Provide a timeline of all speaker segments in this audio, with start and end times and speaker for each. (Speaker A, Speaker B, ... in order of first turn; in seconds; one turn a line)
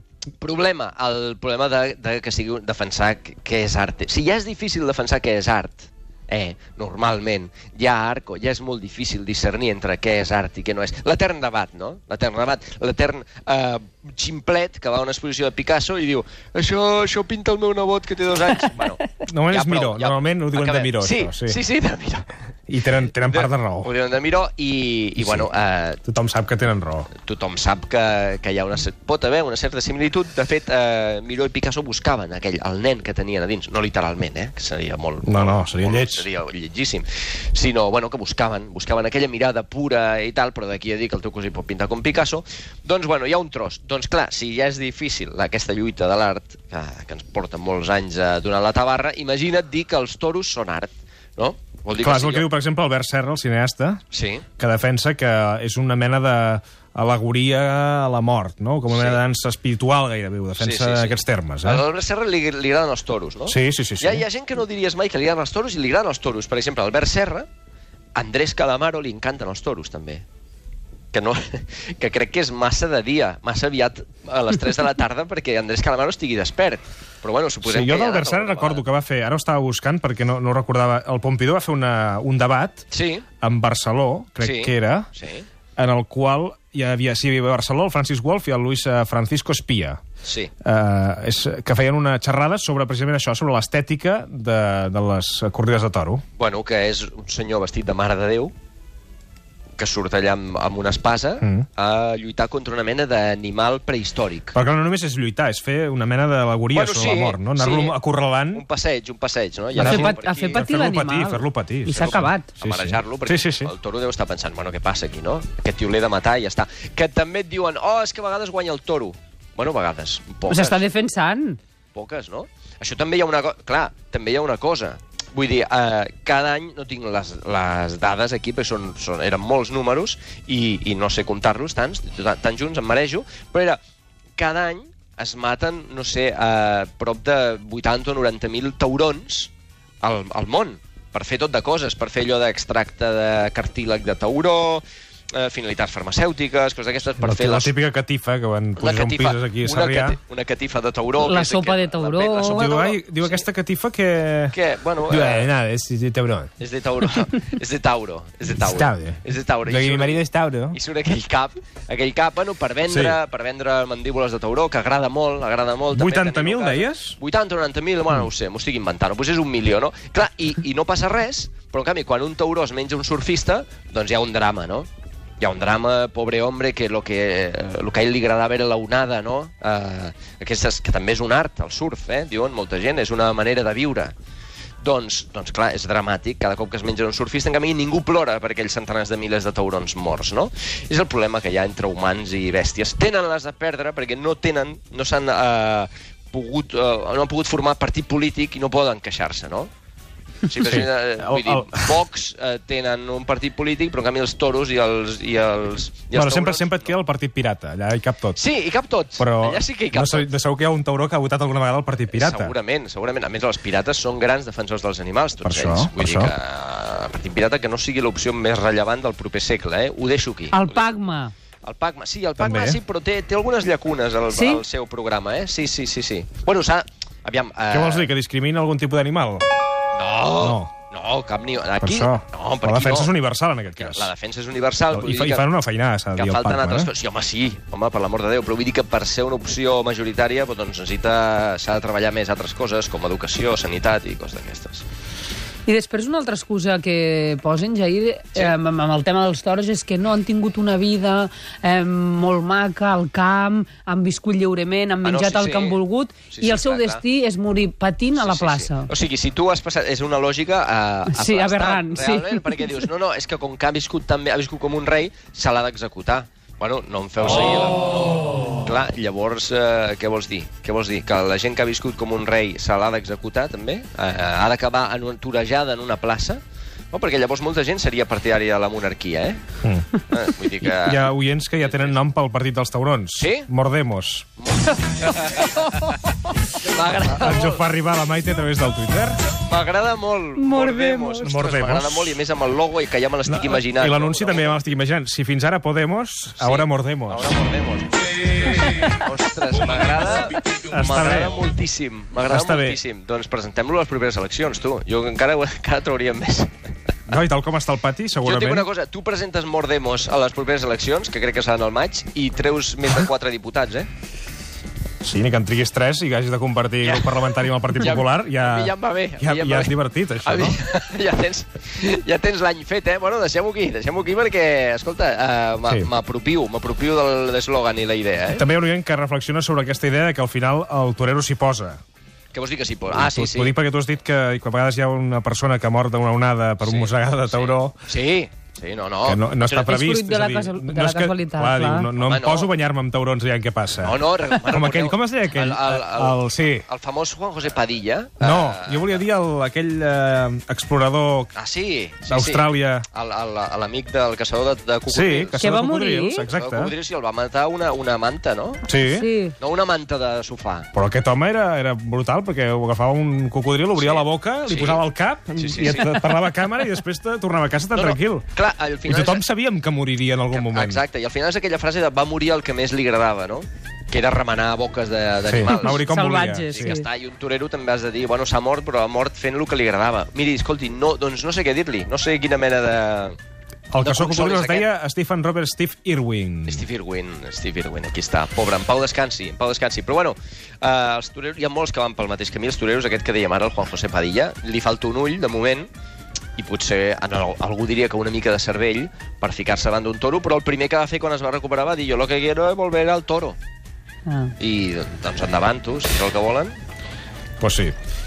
Speaker A: 0.4-22.3
Speaker B: 19.3-21.6
Speaker B: 22.7-23.9
Speaker A: 23.1-26.0
Speaker B: 25.2-25.5
Speaker B: 26.0-27.1
Speaker A: 27.1-52.5
Speaker B: 35.2-36.2
Speaker B: 52.0-54.0
Speaker A: 54.1-54.5
Speaker B: 54.6-61.9
Speaker A: 58.9-59.2
Speaker A: 60.6-67.5
Speaker B: 63.5-64.2
Speaker A: 68.1-70.2
Speaker A: 71.1-78.8
Speaker B: 77.6-82.8
Speaker A: 82.9-83.2
Speaker B: 83.4-85.1
Speaker A: 84.4-85.5
Speaker B: 85.8-90.0
Speaker A: 90.2-90.5
Speaker B: 90.6-96.2
Speaker A: 96.4-98.5
Speaker A: 99.8-104.5
Speaker B: 101.4-101.7
Speaker B: 104.5-108.6
Speaker A: 106.7-108.0
Speaker A: 108.5-110.7
Speaker C: 109.8-112.5
Speaker B: 109.8-113.7
Speaker A: 111.9-120.8
Speaker C: 120.5-121.6
Speaker A: 121.9-133.8
Speaker A: 134.3-139.5
Speaker A: 140.0-147.7
Speaker B: 147.2-150.2
Speaker A: 148.8-153.5
Speaker C: 151.2-152.7
Speaker B: 152.4-154.5
Speaker A: 154.5-155.5
Speaker B: 155.1-156.5
Speaker A: 156.6-174.9
Speaker B: 158.6-160.8
Speaker B: 162.9-163.2
Speaker B: 165.9-167.2
Speaker A: 175.4-184.1
Speaker A: 184.8-199.7
Speaker A: 200.4-206.9
Speaker B: 200.6-202.0
Speaker B: 206.1-208.4
Speaker A: 208.3-210.3
Speaker B: 209.2-212.5
Speaker A: 212.1-220.9
Speaker B: 215.4-216.3
Speaker C: 220.5-221.3
Speaker A: 221.6-228.1
Speaker B: 222.4-222.8
Speaker C: 224.3-224.6
Speaker B: 227.7-229.4
Speaker A: 229.9-233.1
Speaker B: 230.4-230.7
Speaker B: 231.8-234.1
Speaker A: 233.7-235.5
Speaker B: 234.9-236.9
Speaker A: 236.1-244.8
Speaker C: 245.7-258.9
Speaker A: 255.0-255.8
Speaker A: 256.3-257.0
Speaker A: 258.1-279.4
Speaker C: 261.1-262.8
Speaker B: 279.6-279.9
Speaker A: 280.1-281.1
Speaker B: 280.6-284.3
Speaker A: 281.6-282.0
Speaker A: 283.1-283.5
Speaker A: 284.4-286.0
Speaker A: 286.5-287.6
Speaker B: 287.0-289.2
Speaker A: 289.4-294.6
Speaker C: 290.4-291.4
Speaker B: 291.2-292.2
Speaker B: 293.2-297.3
Speaker A: 296.4-306.5
Speaker B: 300.7-301.4
Speaker B: 302.3-302.8
Speaker B: 307.1-308.7
Speaker A: 308.2-313.9
Speaker B: 315.0-320.6
Speaker A: 316.8-328.5
Speaker B: 328.3-331.8
Speaker A: 332.3-333.5
Speaker B: 332.9-337.8
Speaker A: 336.6-339.7
Speaker B: 339.0-346.6
Speaker C: 339.6-341.9
Speaker A: 341.9-342.5
Speaker A: 343.8-349.0
Speaker B: 348.2-351.3
Speaker A: 351.3-355.6
Speaker B: 352.1-352.9
Speaker B: 354.9-356.7
Speaker C: 355.4-356.2
Speaker A: 356.2-358.6
Speaker B: 358.7-359.1
Speaker C: 358.7-359.3
Speaker A: 359.4-360.7
Speaker B: 360.7-368.2
Speaker A: 363.8-364.8
Speaker A: 365.4-366.0
Speaker A: 367.7-369.2
Speaker B: 368.9-370.8
Speaker A: 370.3-375.9
Speaker B: 375.2-376.8
Speaker C: 375.5-376.9
Speaker A: 376.5-383.2
Speaker B: 383.7-386.6
Speaker A: 383.8-384.7
Speaker A: 386.5-395.7
Speaker A: 396.4-403.4
Speaker C: 404.1-404.3
Speaker A: 404.4-406.6
Speaker B: 407.4-407.7